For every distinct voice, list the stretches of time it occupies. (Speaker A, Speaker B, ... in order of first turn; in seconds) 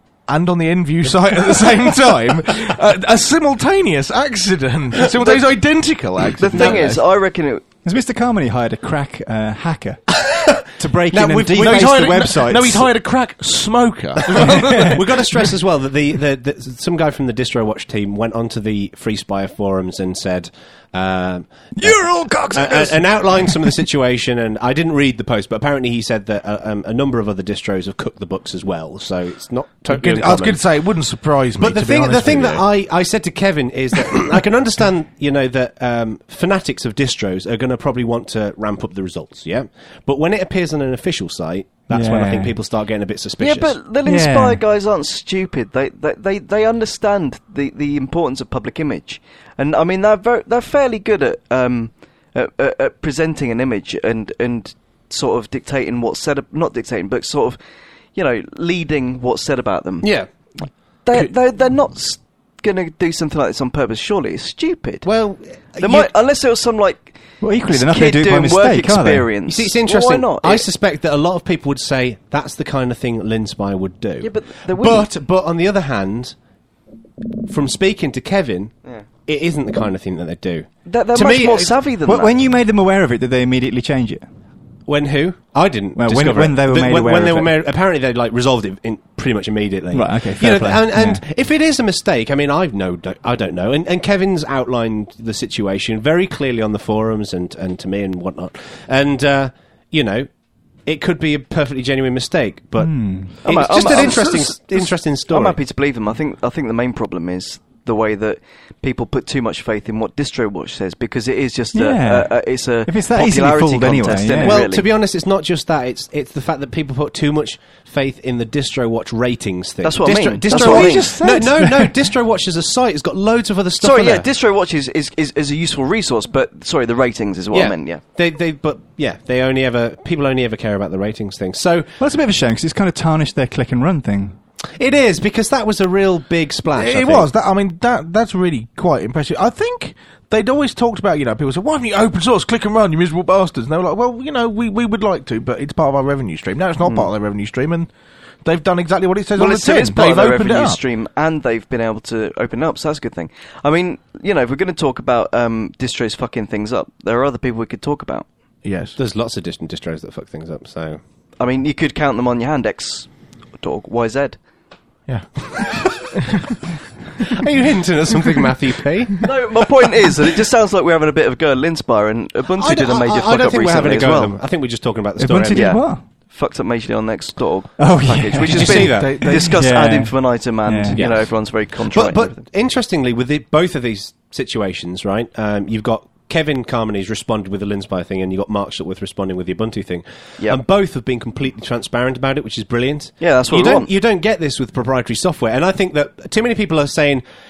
Speaker A: 0.3-7.0, 11.6-15.4, 29.9-32.6, 103.9-104.6, 136.7-147.9, 148.4-150.8, 158.6-158.9, 165.1-166.4, 178.6-179.5
Speaker B: 6.4-7.6, 43.4-57.6, 58.1-60.1, 61.0-65.1, 65.8-67.1, 67.7-70.7, 74.2-75.1, 80.8-82.4, 103.4-104.3, 105.3-114.8, 119.8-121.1, 123.8-128.0, 149.3-158.2, 161.4-164.4, 169.2-174.4, 175.5-182.4, 193.2-193.9
Speaker C: 6.5-6.8, 10.2-10.6, 11.1-12.3, 14.2-21.9, 22.5-30.6, 31.6-43.8, 60.0-60.3, 65.0-66.1, 69.5-76.3, 77.5-81.8, 84.9-100.3, 100.8-105.6, 114.4-124.2, 127.5-131.9, 134.8-137.3, 159.0-161.0, 167.2-169.3, 172.6-175.8, 178.4-179.2, 180.9-181.3, 181.9-197.2
Speaker D: 7.8-12.9, 14.6-15.0, 21.8-23.7, 41.9-42.6, 44.0-44.6, 67.4-69.3, 82.0-84.3, 86.0-87.5, 89.9-91.2, 102.8-103.3, 111.7-114.6, 120.5-121.9, 132.0-134.4, 175.2-176.0, 177.8-181.0